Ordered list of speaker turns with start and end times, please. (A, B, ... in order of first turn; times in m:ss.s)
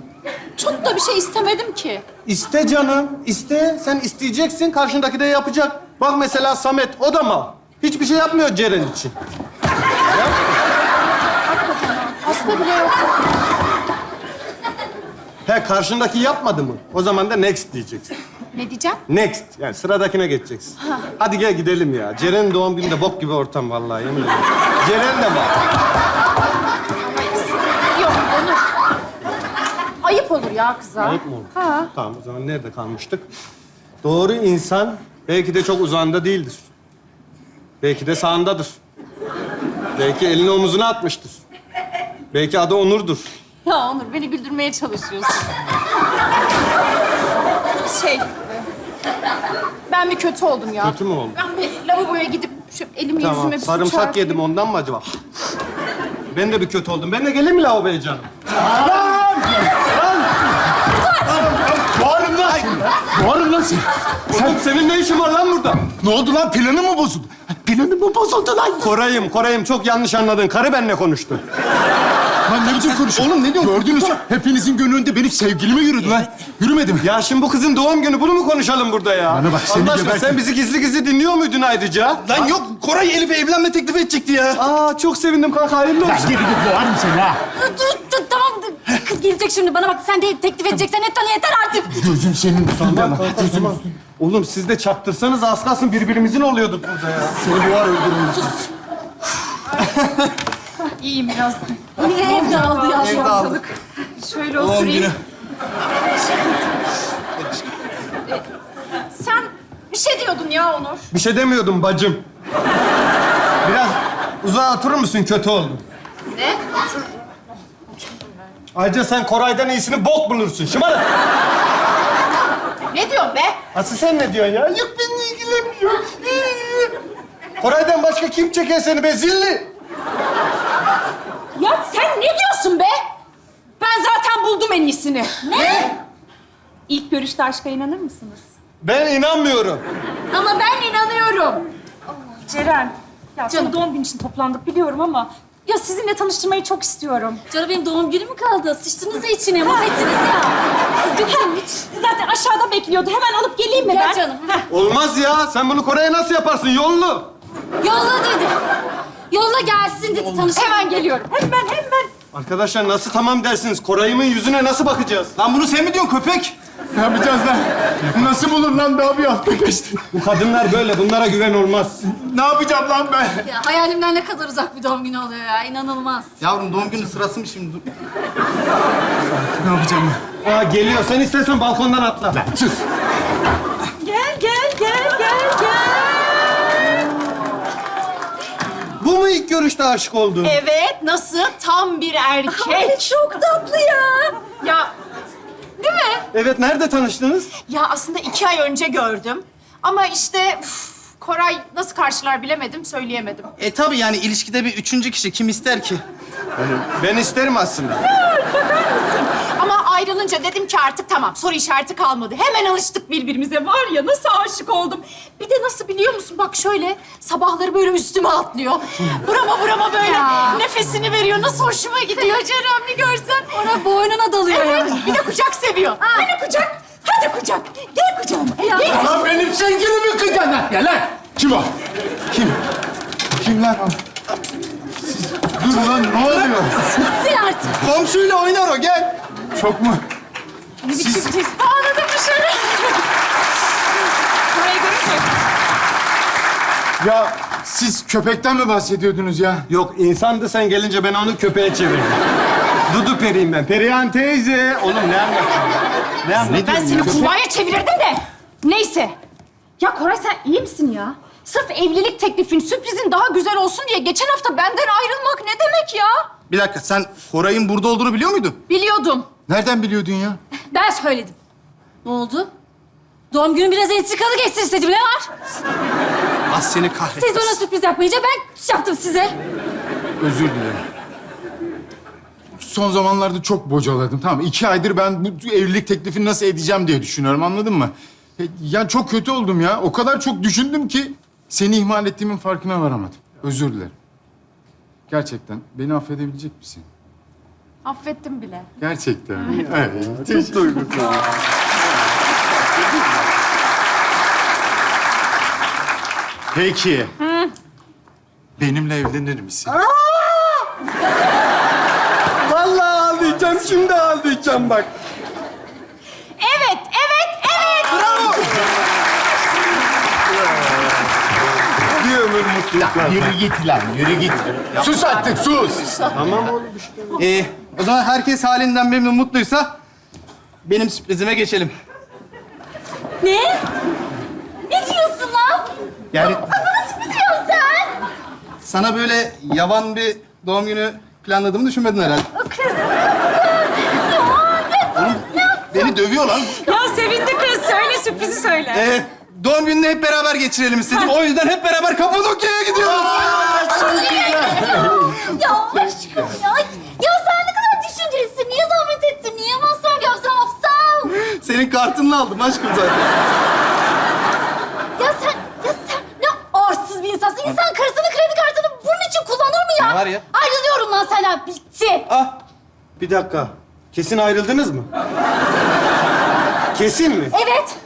0:00.6-0:02.0 A
0:02.2-0:09.1 B
0:10.1-0:10.5 B
0:11.5-0:13.1 A
0:15.4-0:18.1 B
0:18.5-0:19.0 A
0:19.1-0:25.5 B
0:27.0-0:28.6 A
0:30.0-0:31.9 A
0:31.0-0:33.2 B
0:34.0-0:36.6 B
0:37.8-0:38.8 B
0:40.0-0:41.4 B
0:42.3-0:43.3 B
0:43.6-0:45.7 A
0:47.7-0:48.4 A
0:49.9-0:54.4 A
0:50.8-0:51.4 B
0:53.2-0:55.1 B
0:56.3-0:58.3 B
0:58.6-0:59.8 C
0:59.7-1:00.4 B
1:01.0-1:01.3 D
1:01.3-1:04.6 C
1:04.3-1:05.9 B
1:05.9-1:08.9 C
1:08.8-1:11.4 B
1:12.5-1:17.1 C
1:12.7-1:14.2 E
1:17.0-1:22.3 B
1:19.3-1:20.4 C
1:22.2-1:24.6 E
1:24.5-1:26.4 B
1:26.0-1:27.4 C
1:27.5-1:32.1 D
1:32.0-1:33.8 C
1:32.7-1:37.4 B
1:32.9-1:33.2 E
1:37.4-1:38.2 C
1:37.8-1:38.2 E
1:38.3-1:38.6 D
1:39.8-1:40.2 E
1:41.0-1:45.1 A
1:42.0-1:43.5 D
1:42.9-1:43.6 E
1:44.6-1:45.2 E
1:47.4-1:47.7 E
1:49.1-1:51.1 A
1:51.1-1:52.2 B
1:53.6-1:55.8 B
1:56.3-1:56.6 A
1:58.7-2:01.1 B
2:02.9-2:03.6 A
2:03.7-2:06.9 B
2:07.6-2:09.7 B
2:11.6-2:13.0 A
2:13.8-2:15.9 A
2:15.5-2:15.9 D
2:16.9-2:18.4 A
2:18.8-2:19.8 B
2:20.3-2:21.5 D
2:20.3-2:21.6 A
2:22.4-2:27.4 A
2:23.5-2:23.8 D
2:27.5-2:30.6 D
2:29.6-2:30.0 A
2:31.1-2:31.8 D
2:31.1-2:34.6 A
2:33.7-2:34.6 D
2:34.7-2:37.3 B
2:37.8-2:38.5 D
2:39.3-2:41.1 D
2:40.5-2:42.1 A
2:42.3-2:45.3 B
2:45.4-2:46.5 E
2:46.9-2:50.0 C
2:50.1-2:52.0 B
2:52.2-2:53.4 E
2:52.4-2:53.2 C
2:53.4-2:56.3 D
2:56.4-2:57.8 E
2:59.6-3:00.2 C
3:00.4-3:02.4 B
3:02.4-3:02.8 C
3:04.0-3:07.0 A
3:09.0-3:10.6 B
3:10.4-3:13.4 A
3:12.5-3:14.4 D
3:14.5-3:14.9 A
3:15.8-3:16.2 A
3:16.3-3:17.5 B
3:17.7-3:23.5 A
3:23.6-3:26.0 E
3:26.6-3:28.0 B
3:28.0-3:43.5 A
3:40.0-3:40.6 D
3:43.5-3:45.2 D
3:44.5-3:49.2 A
3:46.0-3:46.3 D
3:48.6-3:49.1 D
3:48.8-3:51.7 C
3:52.3-3:52.6 C
3:53.3-3:54.0 C
3:55.0-3:57.0 C
3:57.0-3:57.8 D
3:57.8-3:59.2 E
3:59.5-4:00.0 C
4:00.8-4:02.9 A
4:04.5-4:05.4 A
4:07.0-4:09.7 C
4:09.7-4:12.2 B
4:12.9-4:16.7 B
4:16.4-4:17.3 C
4:16.5-4:17.3 E
4:16.5-4:19.2 A
4:19.8-4:26.3 A
4:26.5-4:28.6 E
4:28.7-4:29.3 A
4:29.5-4:30.4 C
4:30.7-4:31.3 A
4:32.0-4:32.5 D
4:33.3-4:35.3 D
4:36.5-4:37.6 E
4:37.1-4:39.3 D
4:40.2-4:40.8 C
4:42.6-4:53.9 C
4:55.1-4:56.8 C
4:57.8-4:58.7 A
4:58.8-5:00.7 C
4:59.5-5:01.4 B
5:06.5-5:07.1 C
5:07.2-5:07.5 A
5:08.6-5:09.8 C
5:09.9-5:10.6 A
5:12.4-5:14.9 B
5:16.4-5:18.1 A
5:17.9-5:18.5 E
5:21.9-5:23.4 B
5:22.8-5:26.2 C
5:26.1-5:27.2 B
5:27.2-5:29.8 E
5:30.6-5:31.7 E
5:33.2-5:33.6 D
5:34.7-5:37.9 D
5:36.1-5:36.4 E
5:38.6-5:42.3 E
5:42.3-5:45.9 D
5:44.9-5:46.7 E
5:46.6-5:47.9 D
5:46.7-5:48.7 A
5:48.7-5:54.7 E
5:52.9-6:01.1 D
6:01.2-6:03.0 E
6:05.0-6:12.1 D
6:09.8-6:10.2 E
6:12.1-6:12.4 B
6:13.0-6:14.9 B
6:16.7-6:17.3 B
6:17.3-6:17.7 D